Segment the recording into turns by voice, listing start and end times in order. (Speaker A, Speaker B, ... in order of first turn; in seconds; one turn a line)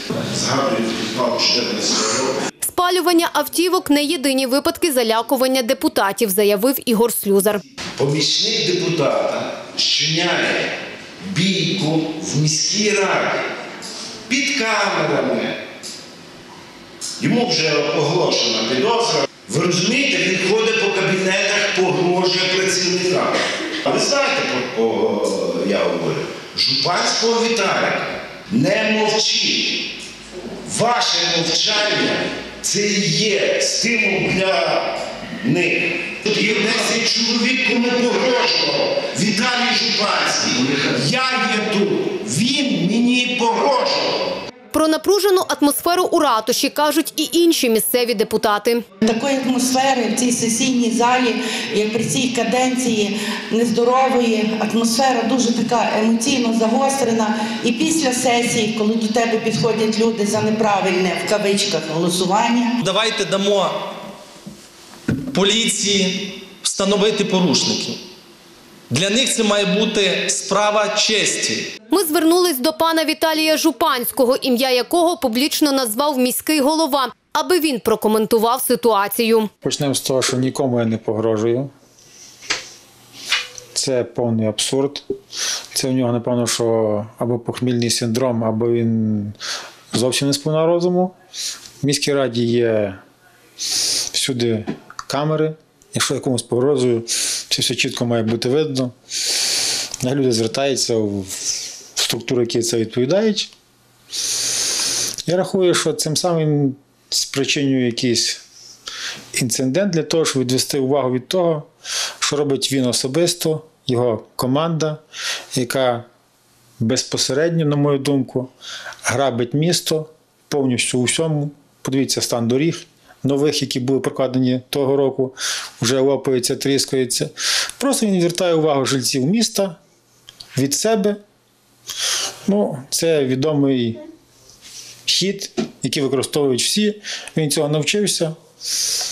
Speaker A: 0.3-2.4
Speaker B: 2.6-7.6
Speaker A: 8.0-10.7
Speaker A: 11.2-13.4
Speaker A: 14.3-15.6
Speaker A: 17.2-29.9
Speaker A: 30.6-44.3
Speaker B: 44.7-48.8
Speaker C: 49.0-62.8
Speaker D: 62.8-63.9
Speaker D: 65.3-68.0
Speaker D: 68.9-71.7
Speaker B: 71.9-79.5
Speaker E: 79.6-81.7
Speaker E: 83.7-85.0
Speaker E: 85.7-89.3
Speaker E: 89.9-91.1
Speaker E: 91.8-93.0
Speaker E: 94.1-98.9
Speaker E: 100.0-103.5
Speaker E: 105.2-108.4
Speaker E: 109.3-111.7
Speaker E: 112.2-115.0
Speaker E: 115.5-116.0
Speaker E: 116.8-118.5
Speaker E: 119.0-129.8
Speaker E: 130.5-131.2
Speaker E: 132.4-134.0
Speaker E: 135.1-138.3